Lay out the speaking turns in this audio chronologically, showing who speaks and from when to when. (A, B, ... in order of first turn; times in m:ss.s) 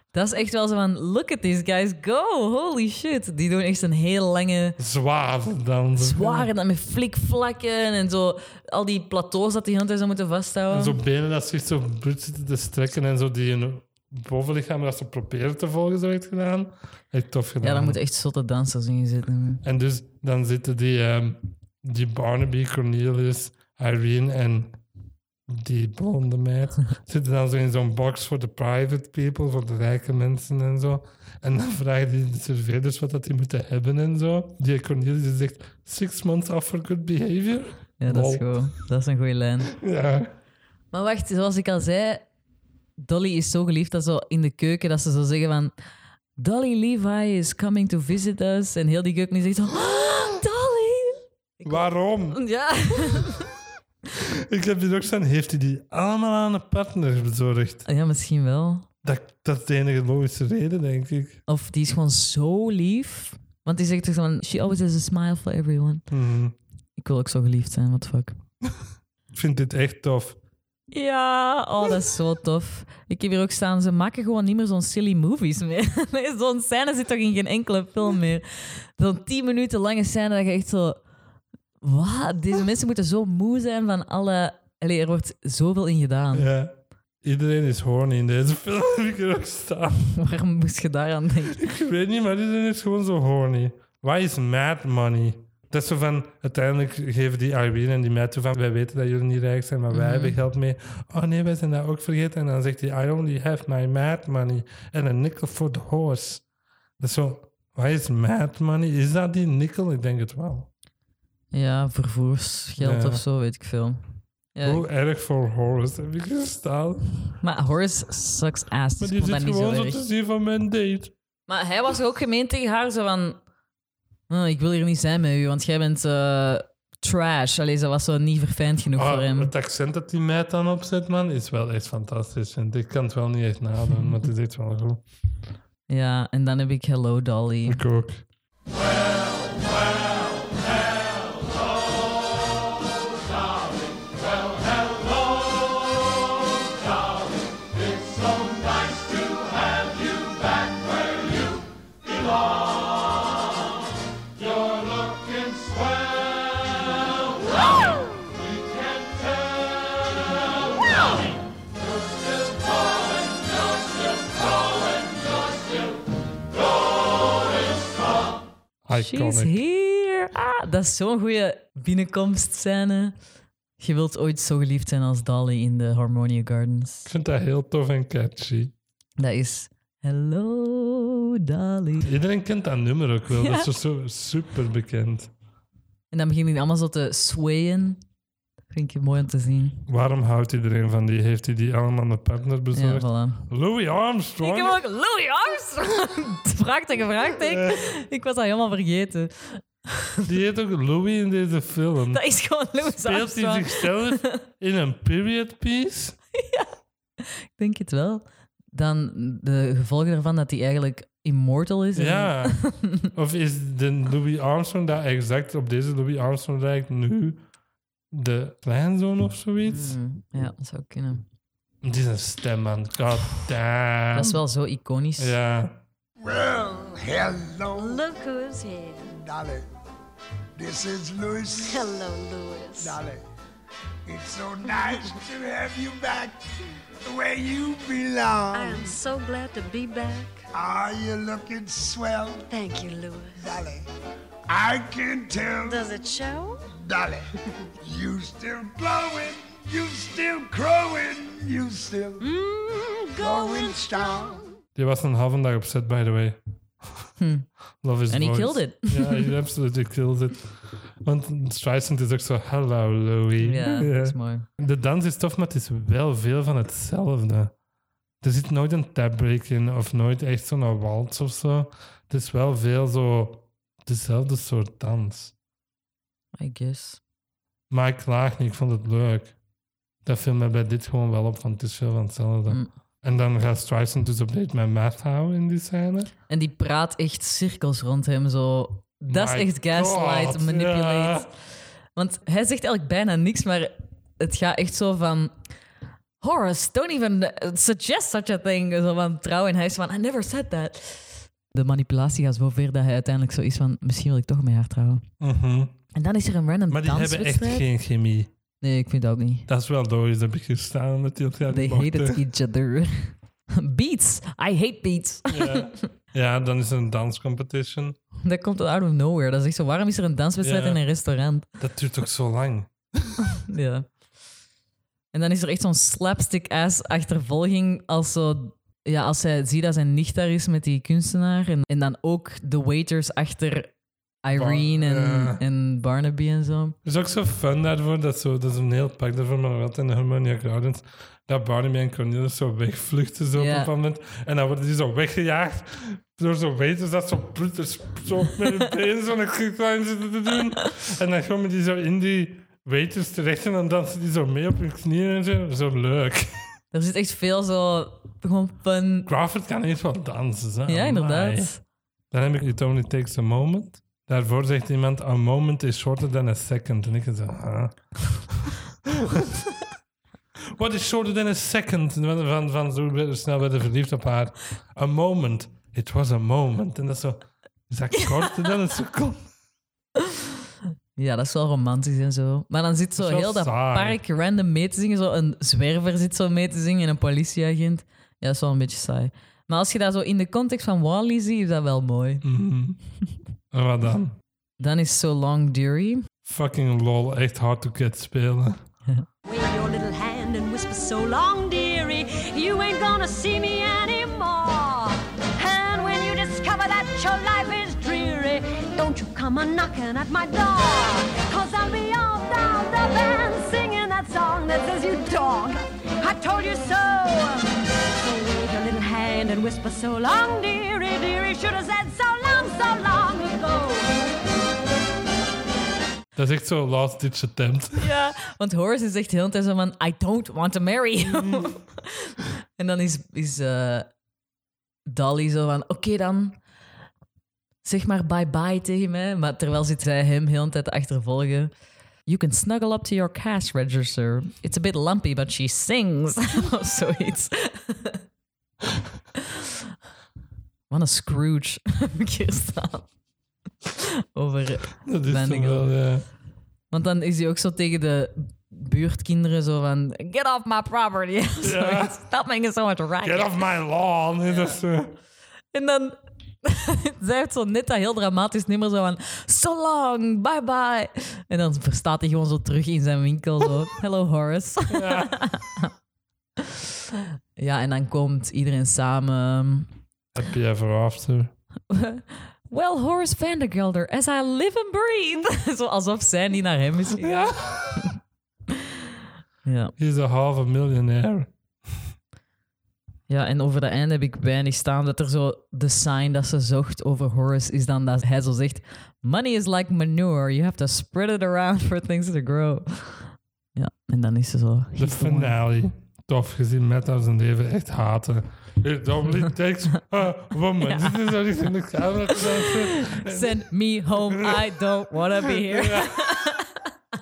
0:00.1-0:04.8 A
0:04.8-0:06.5 B
0:05.9-0:11.0 A
0:10.7-0:18.0 B
0:17.6-0:19.6 A
0:19.6-0:24.8 B
0:25.5-0:38.7 B
0:38.0-0:39.7 A
0:39.7-0:40.3 B
0:40.9-0:42.3 A
0:43.0-0:45.7 A
0:46.4-0:53.5 A
0:51.6-0:52.4 B
0:54.2-0:57.8 B
0:57.8-0:58.9 A
0:59.0-1:01.4 B
1:01.5-1:06.0 A
1:06.1-1:06.6 B
1:07.0-1:08.4 A
1:09.3-1:10.4 B
1:10.9-1:21.0 A
1:21.8-1:26.5 A
1:26.3-1:30.1 B
1:30.2-1:31.6 A
1:31.5-1:46.4 B
1:39.9-1:40.4 A
1:47.0-1:50.7 B
1:51.5-1:54.0 A
1:52.8-1:53.2 B
1:54.5-1:54.8 A
1:54.6-1:57.0 B
1:57.4-2:00.0 A
1:59.0-2:01.1 B
2:01.5-2:03.4 A
2:04.3-2:09.5 A
2:08.9-2:15.0 B
2:15.9-2:17.8 A
2:17.6-2:18.2 B
2:48.8-2:49.6 B
2:49.0-2:53.2 A
2:53.8-2:57.1 A
2:57.1-2:58.7 B
2:59.2-3:02.1 A
3:02.0-3:05.3 B
3:06.1-3:08.0 A
3:08.7-3:09.8 A
3:09.9-3:14.8 B
3:12.7-3:13.5 A
3:14.4-3:20.2 A
3:17.3-3:17.9 B
3:20.2-3:22.2 B
3:22.1-3:24.4 A
3:22.8-3:26.2 B
3:26.3-3:33.1 A
3:32.0-3:37.4 B
3:38.1-3:40.0 B
3:39.6-3:41.2 A
3:41.8-3:44.4 B
3:44.1-3:45.3 A
3:45.2-3:45.8 B
3:46.2-3:48.0 C
3:47.8-3:48.9 D
3:48.3-3:48.9 E
3:49.0-3:49.7 C
3:50.6-3:51.9 C
3:51.7-3:53.0 D
3:52.8-3:53.2 C
3:54.0-3:56.4 C
3:57.0-3:59.0 C
3:58.5-4:00.4 D
4:00.5-4:02.5 C
4:02.5-4:03.4 D
4:03.4-4:03.8 C
4:04.5-4:05.9 C
4:05.6-4:06.6 D
4:06.7-4:07.3 C
4:07.8-4:12.3 C
4:12.2-4:14.2 E
4:13.2-4:14.5 C
4:14.8-4:16.4 B
4:17.2-4:17.5 A
4:17.8-4:27.5 B
4:18.1-4:19.3 A
4:23.4-4:24.4 A
4:28.2-4:35.3 B
4:36.4-4:37.0 A
4:37.7-4:39.4 B
4:40.0-4:46.1 B
4:46.3-4:51.3 A
4:49.1-4:51.3 B
4:52.0-4:55.3 A
4:56.2-5:05.0 A
5:05.2-5:05.8 B
5:05.9-5:07.6 A
5:06.7-5:08.3 B
5:08.6-5:09.5 A
5:09.5-5:12.2 B
5:11.5-5:15.8 A
5:15.3-5:18.0 B
5:18.2-5:21.4 A
5:20.4-5:20.8 B
5:21.6-5:23.2 B
5:23.3-5:23.9 A
5:25.1-5:36.8 A
5:34.3-5:35.4 B
5:36.8-5:56.5 B
5:43.3-5:43.7 A
5:56.7-5:59.1 A
5:59.1-6:01.5 B
6:00.7-6:01.6 A
6:02.1-6:09.5 B
6:10.5-6:19.3 B
6:17.9-6:18.3 A
6:21.0-6:32.2 A
6:23.0-6:24.0 B
6:32.2-6:32.8 B
6:33.5-6:34.2 B
6:34.6-6:36.0 A
6:36.2-6:38.6 B
6:39.2-7:04.0 E
7:06.2-7:07.9 B
7:07.8-7:13.9 A
7:11.1-7:11.6 B
7:14.9-7:16.4 A
7:17.6-7:21.5 A
7:22.0-7:28.0 A
7:29.2-7:29.5 A
7:30.7-7:32.9 A
7:33.8-7:35.6 A
7:34.8-7:36.0 B
7:36.7-7:43.4 A
7:41.4-7:42.0 B
7:43.0-7:45.0 B
7:44.2-7:44.6 A
7:45.5-7:55.7 A
7:54.7-7:55.2 B
7:57.4-7:59.7 A
8:00.1-8:01.3 B
8:01.7-8:07.9 A
8:07.0-8:07.8 B
8:09.4-8:09.7 A
8:09.8-8:11.3 B
8:13.1-8:25.3 A
8:24.8-8:33.4 B
8:30.6-8:31.1 A
8:32.1-8:36.6 A
8:34.1-8:36.3 B